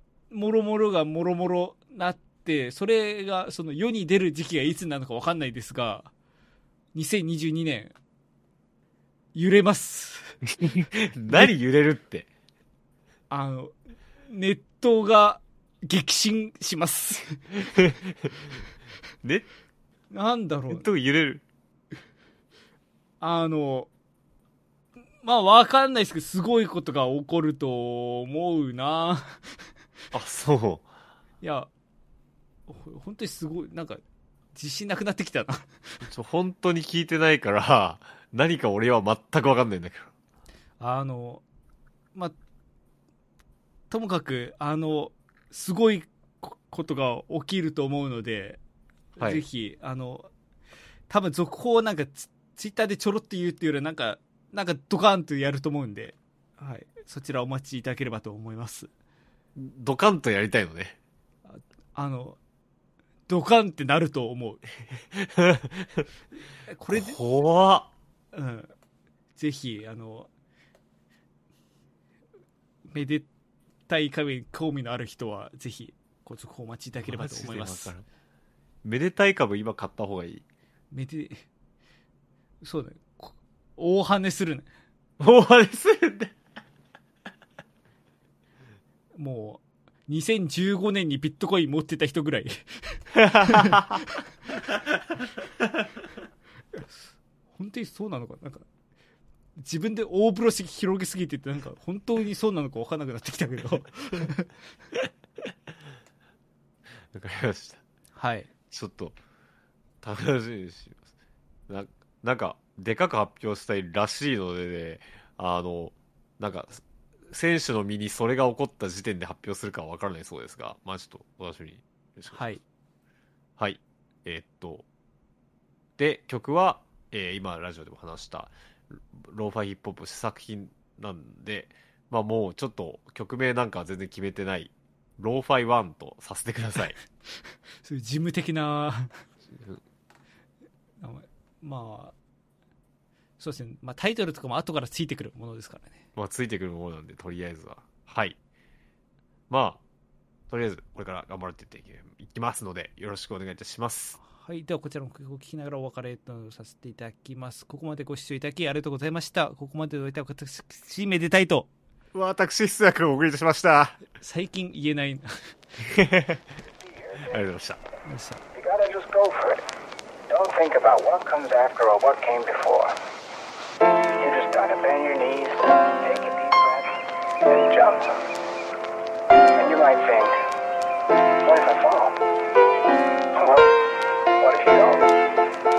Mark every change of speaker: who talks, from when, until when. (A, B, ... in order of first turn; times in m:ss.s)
0:00.3-0:06.1 A
0:06.9-0:07.9 A
0:09.3-0:10.4 A
0:10.6-0:12.3 B
0:13.3-0:17.5 A
0:17.7-0:18.1 B
0:19.2-0:19.5 B
0:20.1-0:20.9 A
0:20.7-0:21.4 B
0:23.2-0:23.9 A
0:25.2-0:29.6 A
0:30.1-0:30.8 B
0:31.4-0:31.7 A
0:32.7-0:34.0 A
0:34.5-0:36.0 A
0:36.0-0:40.1 B
0:40.8-0:41.4 A
0:43.9-0:48.6 A
0:49.2-0:50.3 A
0:49.2-0:49.4 B
0:51.1-0:58.9 A
0:59.6-1:00.9 B
1:01.5-1:02.4 A
1:03.3-1:04.6 A
1:05.1-1:06.0 B
1:06.7-1:07.2 A
1:06.9-1:07.9 B
1:08.3-1:08.7 A
1:09.4-1:10.3 A
1:12.9-1:13.3 A
1:13.9-1:17.9 A
1:17.1-1:18.0 B
1:18.8-1:20.4 B
1:20.9-1:21.4 A
1:22.6-1:24.7 A
1:25.2-1:26.3 B
1:29.1-1:34.2 A
1:33.2-1:34.0 B
1:36.8-1:38.6 A
1:39.6-1:44.5 A
1:47.1-1:47.8 B
1:48.2-1:48.5 A
1:48.7-1:49.2 B
1:50.0-1:51.0 B
1:51.7-2:02.4 B
2:02.3-2:02.6 A
2:03.6-2:04.8 B
2:06.0-2:17.0 B
2:17.3-2:19.2 A
2:19.5-2:19.8 B
2:21.0-2:22.1 A
2:23.4-2:26.0 A
2:26.2-2:28.4 B
2:29.5-2:29.8 B
2:30.5-2:34.2 B
2:34.2-2:41.7 A
2:42.1-2:44.0 B
2:44.2-2:45.6 A
2:45.8-2:46.4 B
2:47.0-2:47.3 C
2:47.3-2:47.8 B
2:48.0-2:48.4 A
2:48.5-2:49.6 C
2:50.3-2:52.9 C
2:54.2-2:58.2 C
2:59.6-3:00.4 C
3:01.4-3:02.2 C
3:03.3-3:03.7 C
3:04.4-3:05.1 C